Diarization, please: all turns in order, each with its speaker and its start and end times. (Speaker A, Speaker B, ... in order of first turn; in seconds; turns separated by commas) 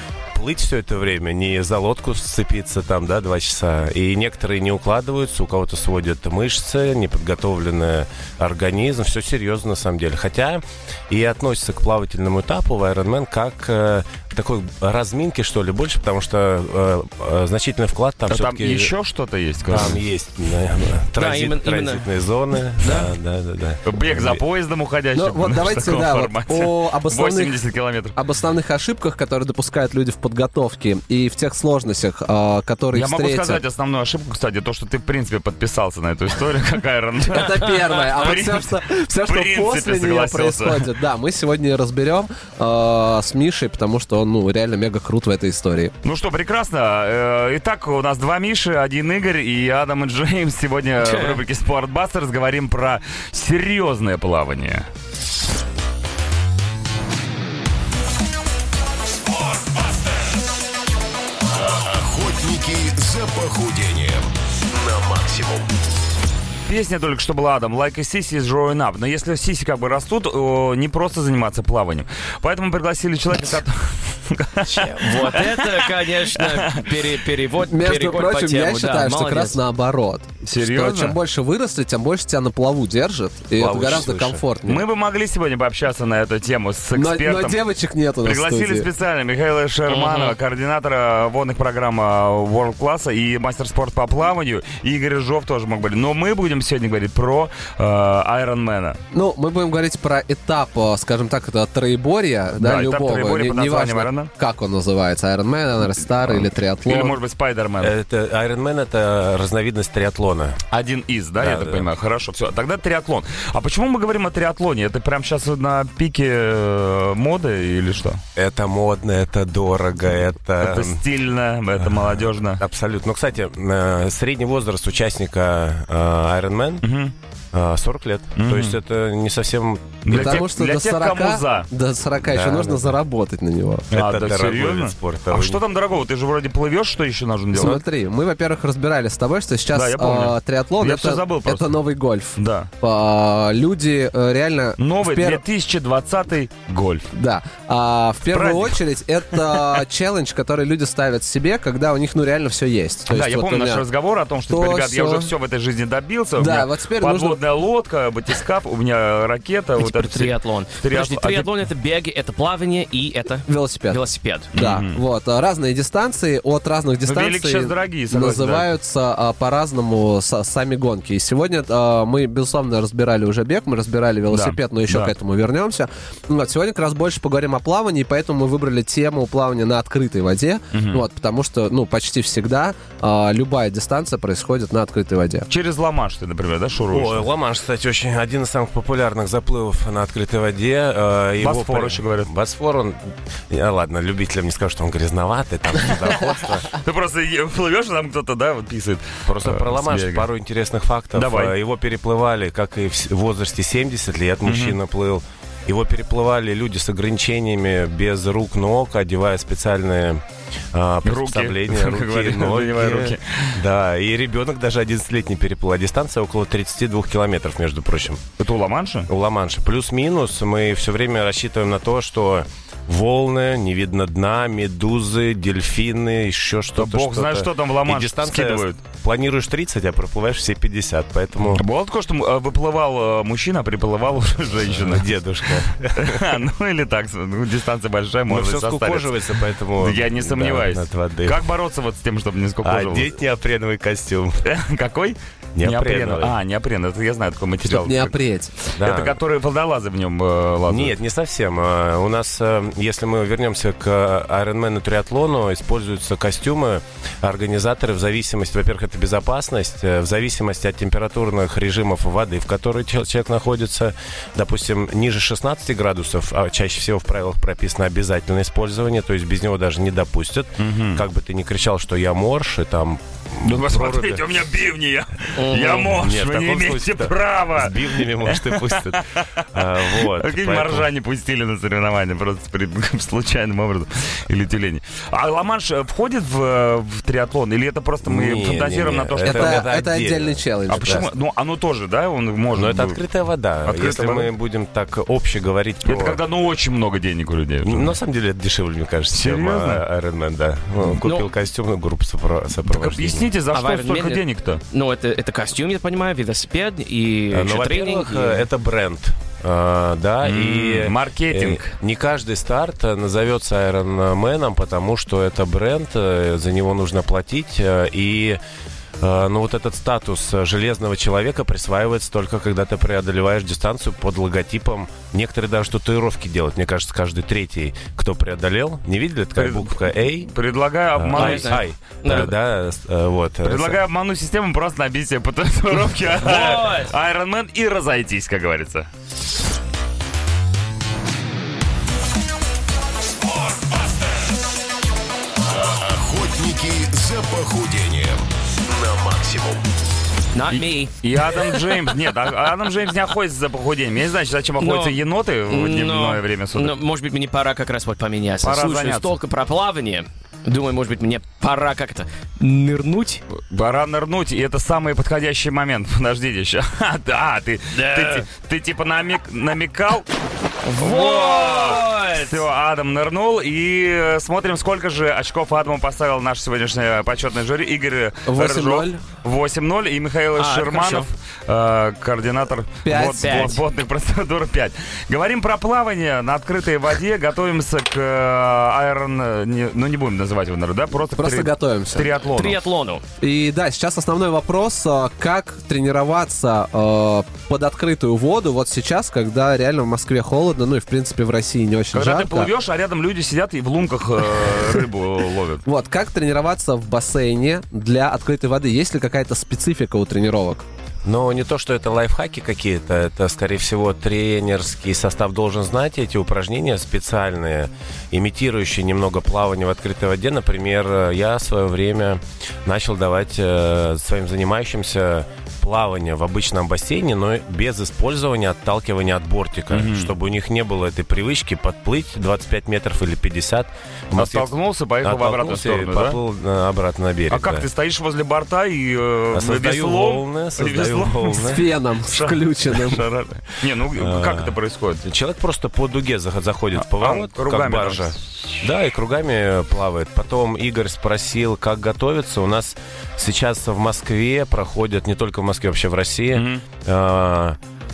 Speaker A: 0.3-18.9, Speaker B: 18.3-20.0, Speaker A: 19.6-24.4, Speaker C: 21.2-22.0, Speaker C: 22.8-23.1, Speaker B: 23.8-28.1, Speaker D: 25.1-27.6, Speaker D: 28.1-33.6, Speaker B: 32.9-40.9, Speaker D: 37.2-45.9, Speaker B: 46.0-54.9, Speaker C: 51.0-51.4, Speaker E: 61.5-65.7, Speaker B: 66.7-77.0, Speaker A: 74.6-75.3, Speaker C: 75.0-79.6, Speaker D: 77.6-84.8, Speaker B: 80.4-81.2, Speaker A: 83.5-84.4, Speaker B: 84.6-87.6, Speaker D: 86.9-88.9, Speaker B: 88.2-99.0, Speaker C: 89.9-90.3, Speaker D: 99.1-107.2, Speaker B: 102.6-104.3, Speaker B: 106.8-107.9, Speaker A: 107.8-110.6, Speaker B: 110.7-118.2, Speaker A: 111.4-111.9, Speaker A: 118.3-121.0, Speaker B: 120.6-122.6, Speaker A: 121.8-126.8, Speaker B: 126.8-127.1, Speaker A: 127.5-130.4, Speaker B: 128.4-128.8, Speaker B: 130.0-131.7, Speaker D: 130.1-133.9, Speaker A: 132.2-132.9, Speaker A: 133.9-135.6, Speaker B: 133.9-137.8, Speaker D: 137.5-145.4, Speaker B: 139.7-141.8, Speaker B: 142.4-142.7, Speaker B: 144.8-147.1, Speaker D: 147.1-153.8, Speaker B: 148.3-148.8, Speaker B: 149.3-149.8, Speaker B: 153.1-161.5, Speaker D: 154.5-155.3, Speaker D: 156.4-157.4, Speaker C: 159.8-164.5, Speaker D: 163.4-164.0, Speaker B: 164.5-165.0, Speaker D: 164.5-185.5, Speaker B: 167.0-168.7, Speaker B: 174.3-175.1, Speaker B: 180.7-181.0, Speaker B: 185.5-187.3, Speaker A: 186.9-196.7, Speaker B: 191.4-192.3, Speaker B: 196.7-200.3, Speaker A: 199.2-218.2, Speaker B: 201.1-201.5, Speaker B: 204.4-204.8, Speaker B: 211.0-213.6, Speaker B: 218.4-219.1, Speaker A: 219.1-231.7, Speaker B: 226.8-228.8, Speaker B: 231.5-243.1, Speaker A: 234.7-236.4, Speaker A: 238.3-241.4, Speaker A: 242.6-244.4, Speaker B: 244.4-248.1, Speaker A: 245.5-246.4, Speaker D: 247.6-248.6, Speaker B: 248.7-250.9, Speaker A: 248.8-249.2, Speaker A: 250.7-274.2, Speaker B: 270.6-271.0, Speaker B: 273.4-289.6, Speaker C: 275.4-275.9, Speaker A: 275.7-280.9, Speaker A: 288.0-291.1, Speaker D: 289.2-291.1, Speaker B: 290.7-293.0, Speaker A: 292.5-296.2, Speaker B: 293.6-294.3, Speaker B: 295.8-297.9, Speaker A: 297.6-303.3, Speaker B: 299.1-299.8, Speaker C: 300.9-301.3, Speaker B: 302.6-304.6, Speaker C: 303.5-308.5, Speaker A: 307.3-318.4, Speaker B: 310.2-311.7, Speaker A: 319.0-330.3, Speaker B: 329.4-332.3, Speaker A: 330.9-333.8, Speaker C: 331.1-332.3, Speaker B: 333.4-338.9, Speaker C: 336.2-336.9, Speaker E: 345.4-349.6, Speaker C: 350.3-351.6, Speaker B: 350.5-356.8, Speaker C: 354.6-355.0, Speaker C: 355.5-363.2, Speaker B: 358.4-359.1, Speaker B: 363.3-370.1, Speaker C: 367.7-368.2, Speaker C: 370.6-372.4, Speaker B: 370.7-392.6, Speaker D: 378.2-379.0, Speaker C: 380.4-381.1, Speaker D: 382.8-383.6, Speaker C: 383.2-383.6, Speaker D: 391.1-392.1, Speaker C: 392.3-393.0, Speaker D: 393.2-402.5, Speaker B: 401.9-405.6, Speaker D: 405.6-410.6, Speaker A: 411.0-434.5, Speaker B: 429.7-430.1, Speaker B: 434.1-436.2, Speaker A: 435.0-437.6, Speaker B: 437.3-441.6, Speaker A: 439.3-441.6, Speaker D: 441.4-443.0, Speaker B: 442.1-445.0, Speaker A: 443.9-457.6, Speaker B: 446.8-448.6, Speaker B: 456.3-456.6